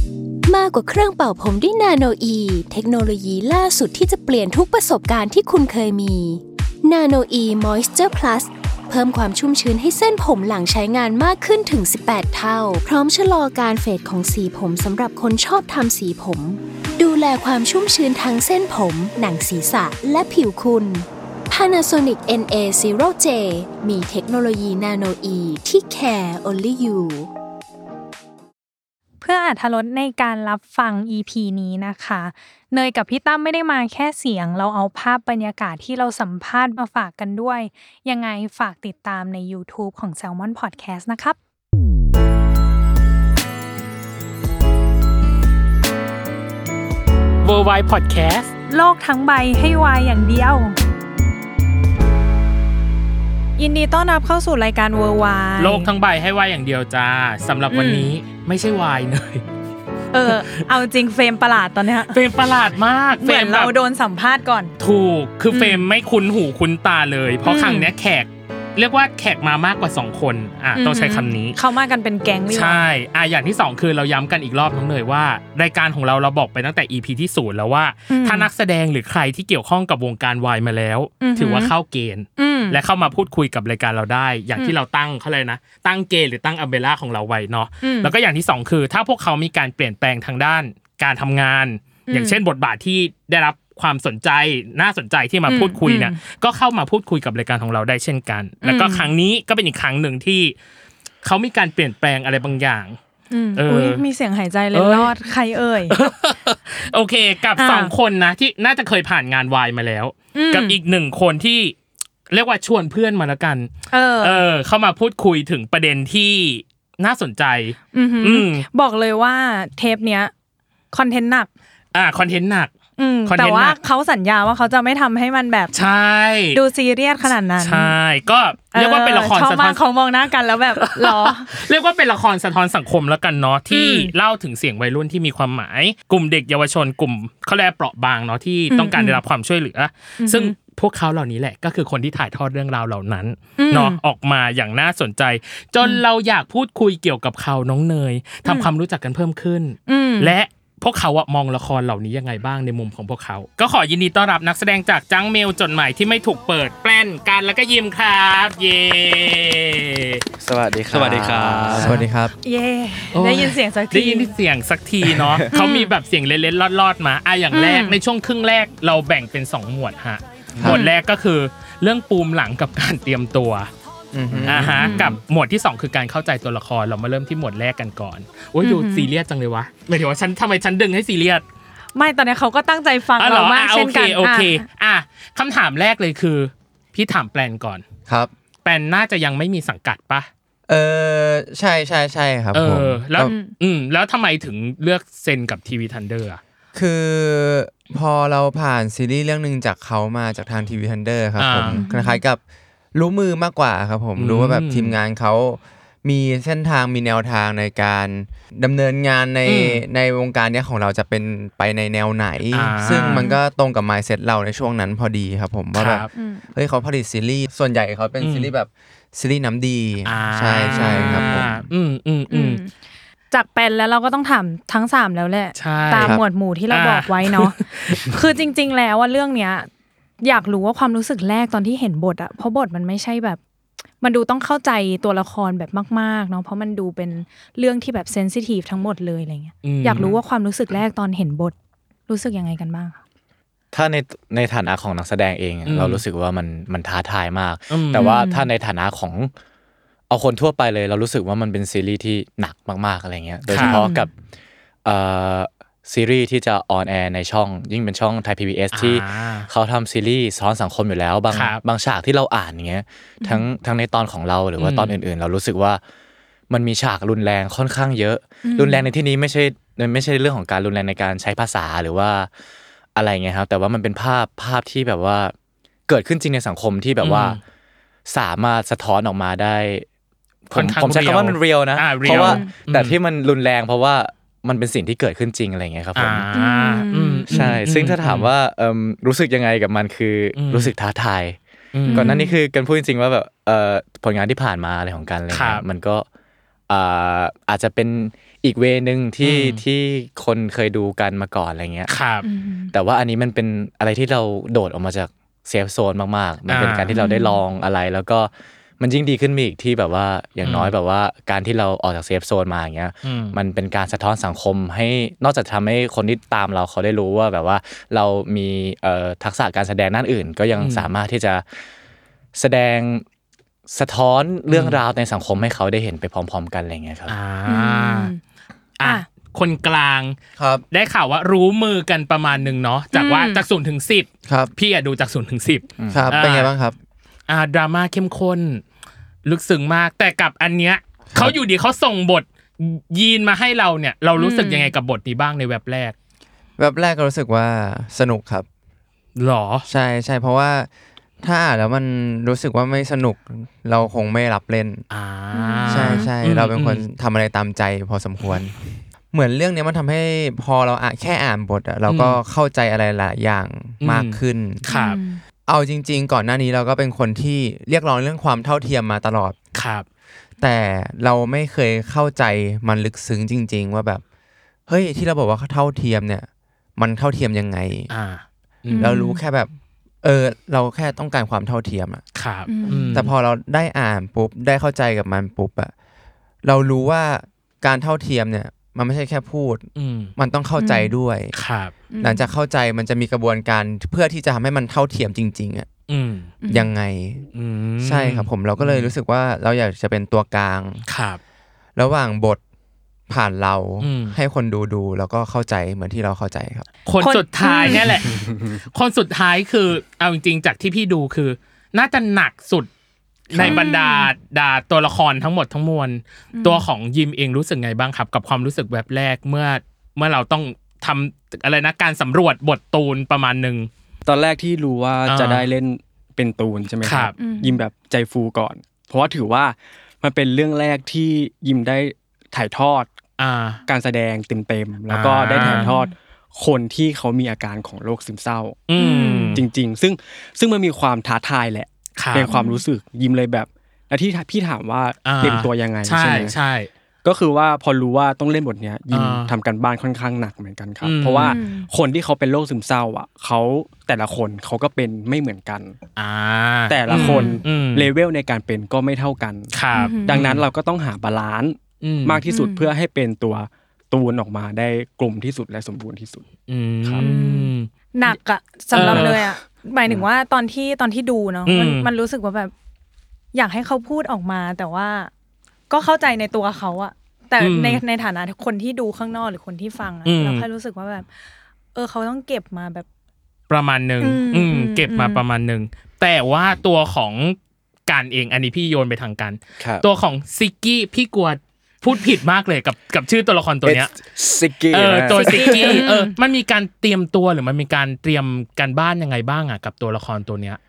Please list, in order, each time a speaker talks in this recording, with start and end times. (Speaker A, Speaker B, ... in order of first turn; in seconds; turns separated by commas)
Speaker A: 0.5-27.3, Speaker B: 29.2-41.4, Speaker C: 47.4-48.5, Speaker B: 48.7-50.8, Speaker B: 53.6-55.9, Speaker C: 55.6-59.4, Speaker B: 57.7-58.1, Speaker B: 60.1-62.2, Speaker C: 60.3-60.6, Speaker C: 62.1-63.7, Speaker B: 63.2-64.7, Speaker C: 64.8-71.6, Speaker B: 65.5-65.9, Speaker B: 67.5-67.9, Speaker B: 70.8-72.8, Speaker C: 72.5-100.6, Speaker B: 78.1-78.5, Speaker B: 81.2-81.7, Speaker B: 82.4-82.8, Speaker B: 87.8-88.1, Speaker B: 92.1-92.4, Speaker B: 95.5-96.2, Speaker B: 98.6-99.1, Speaker C: 101.2-103.0, Speaker B: 103.3-106.0, Speaker C: 103.6-104.0, Speaker C: 104.7-105.1, Speaker C: 105.9-111.8, Speaker B: 107.6-107.9, Speaker B: 110.3-110.8, Speaker C: 112.3-113.7, Speaker B: 113.9-114.4, Speaker C: 114.2-118.7, Speaker B: 117.9-120.3, Speaker B: 120.9-121.5, Speaker C: 121.9-122.7, Speaker B: 123.0-125.8, Speaker C: 123.3-123.8, Speaker C: 125.7-126.6, Speaker B: 126.5-128.0, Speaker C: 127.6-129.8, Speaker B: 128.7-131.5, Speaker C: 130.8-160.2, Speaker B: 133.7-134.1, Speaker B: 138.7-139.2, Speaker B: 140.2-140.5, Speaker B: 143.6-144.0, Speaker B: 149.9-150.3, Speaker D: 160.4-162.0, Speaker E: 160.9-162.0, Speaker F: 161.7-162.3, Speaker B: 162.4-164.3, Speaker C: 163.1-173.7, Speaker D: 165.0-165.4, Speaker B: 165.5-165.9, Speaker B: 167.5-168.0, Speaker B: 170.7-170.9, Speaker F: 174.1-175.1, Speaker D: 174.3-175.1, Speaker C: 174.5-181.4, Speaker B: 174.8-175.1, Speaker B: 178.6-179.1, Speaker B: 181.9-184.7, Speaker C: 183.2-187.8, Speaker F: 188.1-188.3, Speaker C: 188.6-190.3, Speaker F: 190.7-193.3, Speaker C: 192.5-196.4, Speaker B: 193.2-193.5, Speaker F: 196.7-202.4, Speaker C: 201.4-201.8, Speaker B: 201.7-202.2, Speaker F: 202.9-221.7, Speaker C: 204.2-205.0, Speaker C: 209.5-209.8, Speaker C: 212.5-213.3, Speaker B: 212.9-213.4, Speaker C: 215.8-216.1, Speaker B: 216.1-216.5, Speaker C: 218.2-218.5, Speaker C: 220.1-222.6, Speaker B: 220.7-221.5, Speaker B: 222.3-222.7, Speaker B: 223.3-229.7, Speaker C: 225.6-226.2, Speaker C: 226.7-228.1, Speaker B: 230.2-233.4, Speaker B: 234.0-241.6, Speaker C: 239.6-240.2, Speaker B: 242.1-243.0, Speaker D: 243.7-249.3, Speaker C: 245.7-246.0, Speaker C: 247.7-248.3, Speaker B: 248.0-248.4, Speaker D: 250.1-254.1, Speaker C: 253.5-253.8, Speaker B: 253.6-254.1, Speaker D: 254.8-265.8, Speaker C: 258.7-259.5, Speaker C: 261.3-261.6, Speaker B: 263.2-263.5, Speaker C: 264.6-265.0, Speaker D: 266.5-272.3, Speaker B: 268.4-268.9, Speaker D: 272.9-275.3, Speaker D: 275.9-277.4, Speaker C: 277.0-277.4, Speaker D: 278.1-279.9, Speaker D: 280.5-286.3, Speaker C: 280.5-283.0, Speaker B: 282.1-282.5, Speaker C: 286.0-288.3, Speaker B: 286.4-287.5, Speaker D: 287.3-291.4, Speaker C: 290.4-290.7, Speaker C: 291.7-292.2, Speaker D: 291.9-296.1, Speaker B: 291.9-292.4, Speaker C: 295.3-295.6, Speaker D: 296.7-301.9, Speaker C: 299.2-299.6, Speaker C: 301.9-302.2, Speaker B: 302.2-302.7, Speaker D: 302.7-321.4, Speaker C: 306.5-306.9, Speaker B: 306.9-307.4, Speaker C: 310.4-310.7, Speaker C: 313.0-313.4, Speaker C: 320.6-320.9, Speaker D: 322.4-323.1, Speaker D: 323.7-327.1, Speaker C: 324.5-324.8, Speaker C: 327.1-328.1, Speaker B: 327.5-328.2, Speaker C: 328.8-330.2, Speaker F: 330.4-330.6, Speaker C: 330.7-336.5, Speaker B: 332.9-333.4, Speaker F: 334.3-334.5, Speaker D: 335.8-336.2, Speaker F: 335.9-336.8, Speaker C: 337.3-338.6, Speaker C: 339.2-345.9, Speaker B: 344.2-344.7, Speaker F: 346.6-348.5, Speaker C: 349.2-349.7, Speaker F: 349.7-350.7, Speaker F: 351.2-354.9, Speaker C: 354.9-356.8, Speaker B: 355.3-356.1, Speaker F: 355.7-364.6, Speaker C: 361.9-362.2, Speaker C: 363.8-365.0, Speaker B: 364.7-365.2, Speaker F: 365.5-369.4, Speaker C: 369.6-369.9, Speaker F: 370.4-374.0, Speaker F: 374.7-377.9, Speaker C: 377.9-379.0, Speaker B: 378.7-379.2, Speaker F: 378.8-379.5, Speaker F: 380.0-382.0, Speaker C: 382.2-383.1, Speaker B: 382.5-383.0, Speaker F: 382.9-385.7, Speaker F: 386.4-391.3, Speaker C: 389.8-390.1, Speaker B: 390.6-390.9, Speaker C: 391.4-391.7, Speaker B: 391.9-392.3, Speaker F: 392.0-395.7, Speaker C: 395.9-396.3, Speaker B: 396.4-396.7, Speaker F: 396.5-397.2, Speaker C: 397.4-398.9, Speaker F: 397.8-400.8, Speaker C: 400.9-401.2, Speaker F: 401.8-402.4, Speaker F: 403.1-406.7, Speaker C: 403.8-404.2, Speaker C: 406.9-412.7, Speaker B: 407.0-407.9, Speaker E: 408.1-408.4, Speaker C: 413.3-423.7, Speaker B: 413.4-414.1, Speaker B: 416.3-416.6, Speaker E: 424.1-432.9, Speaker C: 425.1-425.5, Speaker C: 426.8-427.1, Speaker B: 427.2-427.6, Speaker C: 433.2-433.6, Speaker E: 433.7-438.6, Speaker C: 434.9-435.7, Speaker B: 435.4-435.9, Speaker C: 438.7-439.4, Speaker B: 438.8-439.4, Speaker E: 439.3-446.4, Speaker C: 442.0-442.3, Speaker B: 442.3-442.6, Speaker C: 445.1-446.7, Speaker E: 447.0-455.8, Speaker C: 448.9-449.3, Speaker C: 450.8-451.4, Speaker B: 451.2-451.7, Speaker C: 456.0-457.9, Speaker E: 456.7-466.2, Speaker B: 456.9-457.4, Speaker C: 459.5-460.5, Speaker B: 459.8-460.2, Speaker C: 461.8-462.2, Speaker B: 462.3-462.7, Speaker C: 466.5-468.2, Speaker B: 467.0-472.5, Speaker C: 468.7-469.3, Speaker E: 468.8-469.1, Speaker C: 471.5-471.9, Speaker B: 473.3-475.1, Speaker B: 475.7-481.1, Speaker C: 477.4-477.8, Speaker C: 480.1-480.5, Speaker B: 481.8-482.9, Speaker C: 483.5-494.0, Speaker B: 484.0-485.2, Speaker D: 489.6-489.9, Speaker D: 493.6-495.8, Speaker C: 494.7-500.6, Speaker B: 495.1-496.1